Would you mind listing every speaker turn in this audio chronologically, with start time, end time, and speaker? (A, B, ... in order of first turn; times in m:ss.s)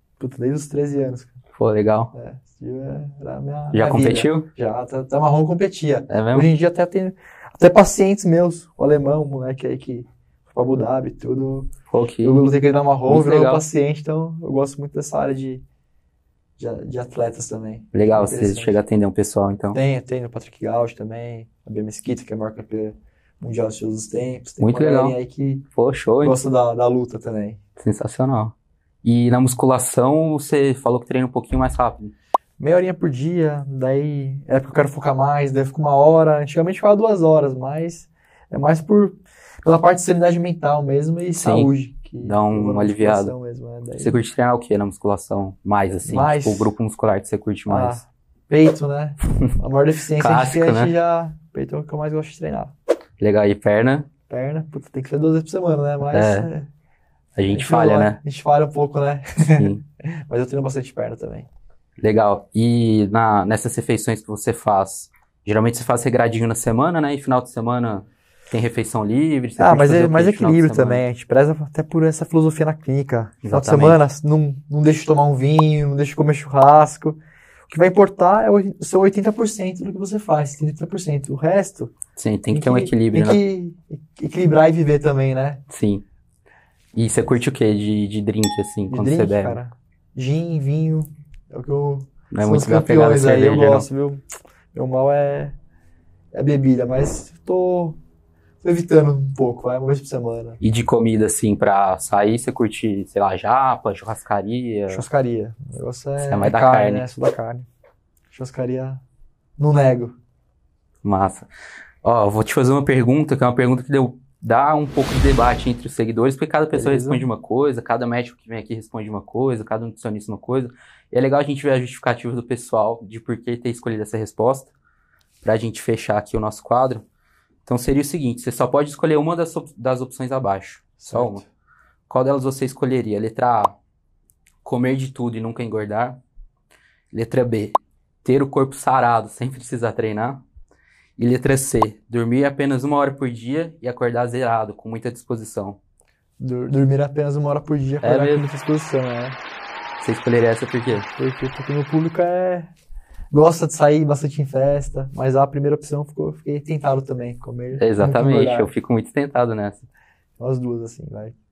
0:00.2-0:01.4 A
0:01.5-0:02.1 B
0:02.1-0:11.7 A
0:03.7-0:04.5 B
0:06.1-0:06.5 B
0:11.9-0:12.4 B
0:12.2-0:15.6 A
0:13.0-0:13.6 B
0:16.6-0:18.8 A
0:17.9-0:19.8 B
0:19.7-0:25.6 A
0:24.6-0:25.2 B
0:25.7-0:26.4 B
0:26.2-0:27.6 A
0:27.8-0:32.1 B
0:32.6-0:44.2 A
0:41.4-0:43.3 B
0:44.0-0:48.0 B
0:46.0-0:46.7 A
0:47.7-0:52.7 A
0:50.2-0:50.9 B
0:53.2-0:54.1 B
0:54.3-0:56.7 A
0:56.1-0:56.5 B
0:57.4-0:58.2 B
0:57.5-1:01.5 A
0:59.6-0:59.8 B
1:02.0-1:11.0 B
1:09.6-1:21.9 A
1:13.4-1:14.0 B
1:22.2-1:23.4 B
1:22.5-1:25.6 A
1:25.7-1:26.0 B
1:26.9-1:29.6 B
1:28.9-1:34.2 A
1:32.3-1:33.9 B
1:34.7-1:35.5 A
1:36.3-1:38.0 A
1:38.6-1:40.6 A
1:40.6-1:45.0 B
1:44.9-1:47.7 A
1:46.2-1:47.1 B
1:48.3-1:49.0 A
1:49.6-1:50.2 A
1:51.0-1:51.5 B
1:52.0-2:04.7 B
1:56.7-1:57.3 A
2:05.4-2:07.0 B
2:07.6-2:11.4 B
2:11.0-2:11.5 A
2:12.1-2:13.8 B
2:14.6-2:16.2 B
2:17.1-2:20.4 B
2:21.2-2:25.8 B
2:26.4-2:29.4 A
2:28.0-2:28.5 B
2:30.0-2:31.1 B
2:31.1-2:32.7 A
2:33.3-2:38.7 A
2:37.7-2:39.9 B
2:40.4-2:41.4 A